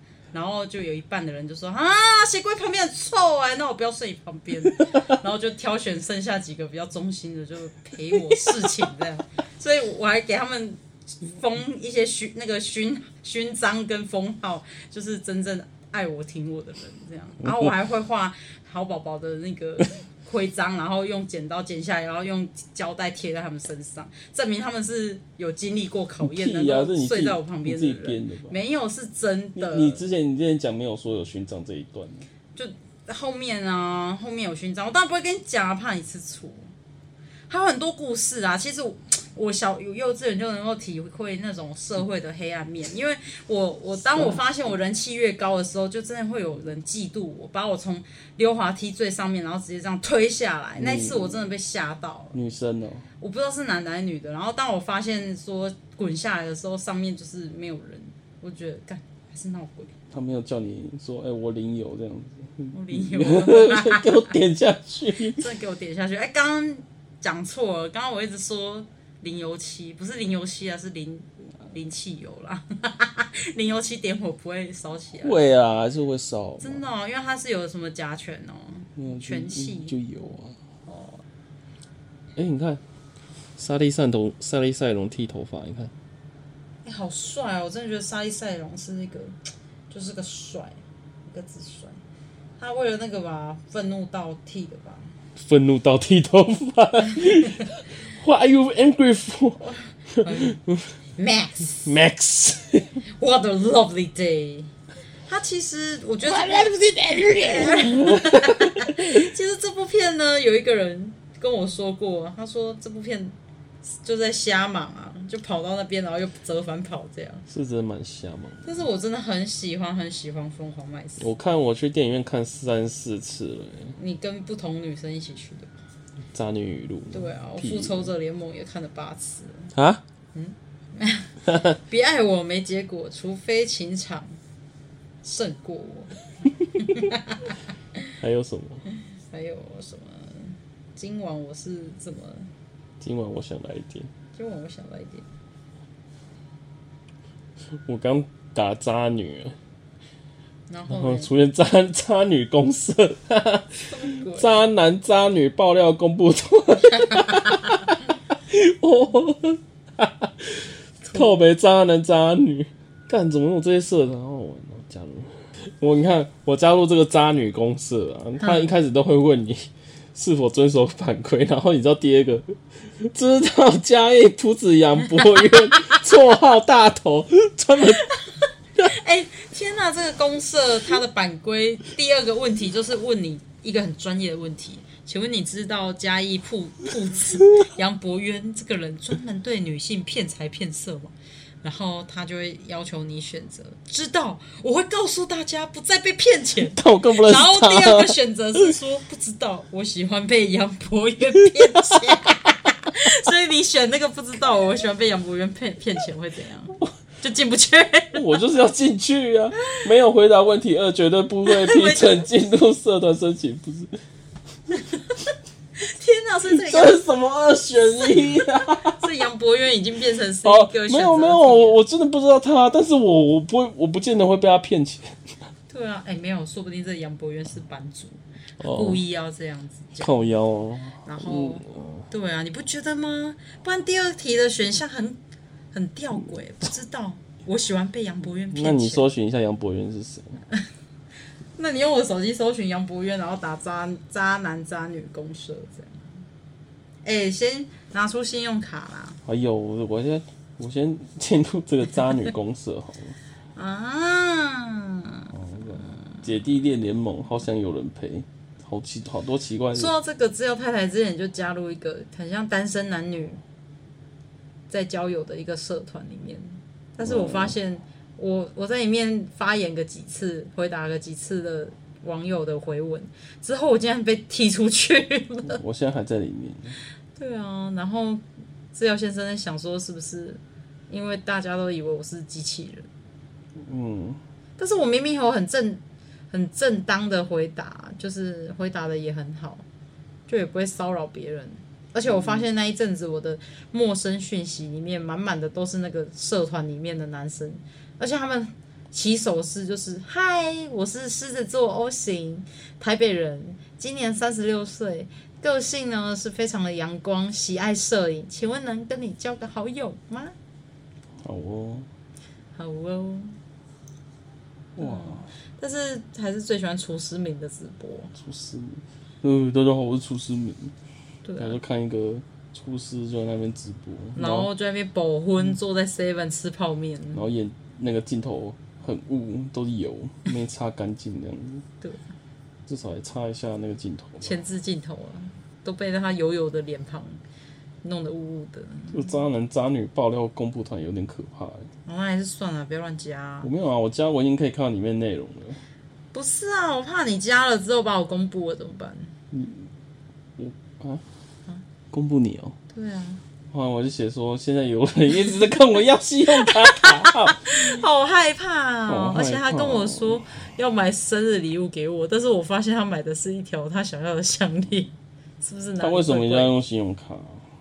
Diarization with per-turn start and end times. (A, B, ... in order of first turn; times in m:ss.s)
0:00.3-0:30.0 A
0:17.4-0:17.7 B
0:26.2-0:28.6 B
0:29.6-0:32.3 B
0:32.5-0:36.7 A
0:37.5-0:52.3 A
0:50.8-0:51.5 B
0:52.3-0:53.0 B
0:53.2-1:00.0 A
1:00.1-1:05.5 B
1:02.7-1:04.3 A
1:05.4-1:15.4 A
1:15.2-1:16.8 B
1:16.6-1:19.9 A
1:19.0-1:20.6 B
1:20.8-1:21.2 A
1:22.4-1:22.8 B
1:23.6-1:25.9 B
1:26.8-1:29.4 A
1:29.9-1:32.0 A
1:32.6-1:35.2 A
1:35.4-1:40.9 B
1:39.6-1:40.6 A
1:41.2-1:41.9 A
1:41.8-1:43.0 B
1:43.0-1:44.7 A
1:45.3-1:46.7 A
1:46.2-1:49.2 B
1:47.2-1:57.4 A
1:57.5-1:58.8 B
1:58.6-2:01.3 A
2:01.2-2:04.0 B
2:04.0-2:05.7 A
2:06.3-2:08.1 B
2:07.1-2:09.7 A
2:09.7-2:10.0 B
2:10.3-2:14.4 A
2:11.5-2:11.7 B
2:15.2-2:16.2 A
2:16.8-2:18.1 A
2:18.2-2:18.8 B
2:19.1-2:22.5 A
2:23.0-2:24.1 B
2:24.3-2:25.2 A
2:27.8-2:29.6 B
2:30.7-2:31.3 A
2:30.9-2:58.1 B
2:33.9-2:34.5 A
2:37.1-2:37.4 A
2:41.0-2:41.3 A
2:48.4-2:48.7 A
2:58.8-3:28.2 A
3:16.6-3:18.7 B
3:21.3-3:22.6 B
3:28.1-3:34.0 B
3:31.4-3:32.2 A
3:34.7-3:35.1 A
3:35.8-3:37.0 A
3:36.5-3:39.0 B
3:37.7-3:41.7 A
3:40.4-3:45.2 B
3:45.7-3:50.2 A
3:48.6-3:49.0 B
3:50.0-3:52.0 B
3:51.0-3:55.2 A
3:55.7-3:59.1 A
3:58.5-4:00.4 B
4:01.6-4:06.1 A
4:07.0-4:09.2 A
4:09.2-4:13.2 B
4:13.5-4:16.0 A
4:15.3-4:19.9 B
4:19.7-4:23.4 A
4:24.7-4:35.6 A
4:27.0-4:27.6 B
4:35.4-4:36.8 B
4:37.2-4:42.9 A
4:43.6-4:44.2 B
4:44.6-4:49.6 A
4:50.3-5:10.3 A
5:11.2-5:11.9 B
5:12.5-5:13.3 A
5:14.8-5:15.3 B
5:14.8-5:18.1 A
5:18.1-5:20.7 B
5:21.2-5:21.6 A
5:21.4-5:24.5 B
5:24.2-5:27.3 A
5:27.1-5:31.6 B
5:32.7-5:34.3 B
5:34.2-5:37.2 A
5:37.8-5:39.1 A
5:38.9-5:41.7 B
5:41.8-5:43.5 A
5:43.4-5:45.6 B
5:46.1-5:49.1 A
5:49.3-5:49.7 B
5:50.4-5:51.0 B
5:51.9-5:52.6 B
5:52.7-5:53.2 A
5:53.5-5:57.6 B
5:56.3-6:06.5 A
5:58.9-6:00.2 B
6:05.8-6:07.4 B